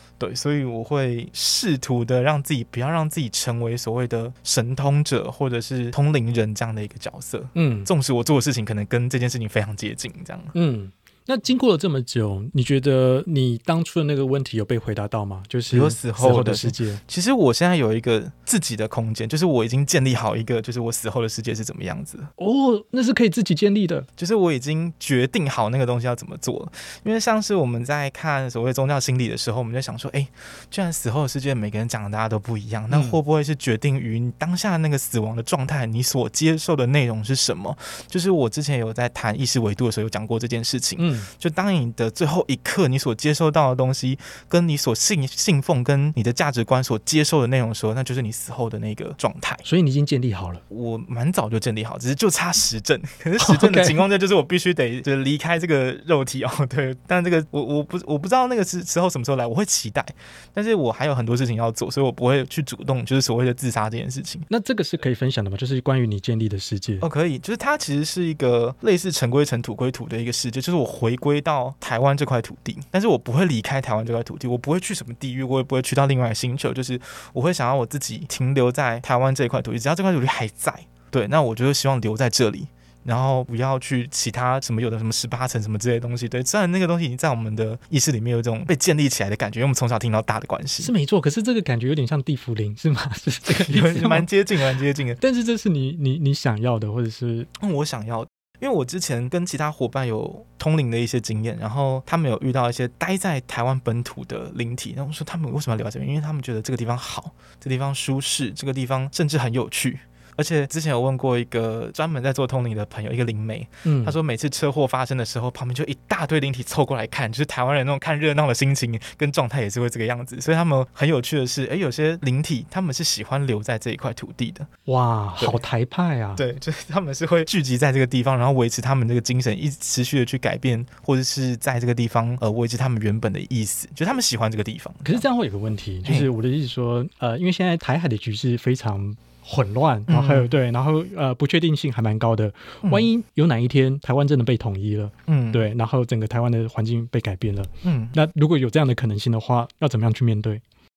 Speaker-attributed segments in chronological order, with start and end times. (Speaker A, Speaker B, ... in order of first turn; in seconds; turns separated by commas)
Speaker A: 0.2-10.5, Speaker B: 7.5-7.9, Speaker B: 10.5-17.0, Speaker A: 15.7-22.3, Speaker B: 22.4-24.1, Speaker A: 24.2-49.6, Speaker B: 32.9-33.2, Speaker B: 41.0-41.3, Speaker B: 49.6-50.6, Speaker A: 50.7-64.5, Speaker B: 53.4-54.0, Speaker B: 64.5-67.1, Speaker A: 67.0-90.9, Speaker B: 90.8-94.3, Speaker A: 93.5-95.2, Speaker B: 95.2-97.5, Speaker A: 97.6-124.7, Speaker B: 113.8-114.2, Speaker B: 124.9-126.4, Speaker A: 126.4-135.2, Speaker B: 135.1-150.6, Speaker A: 140.1-140.5, Speaker A: 142.8-143.1, Speaker A: 145.3-145.7, Speaker A: 147.8-148.2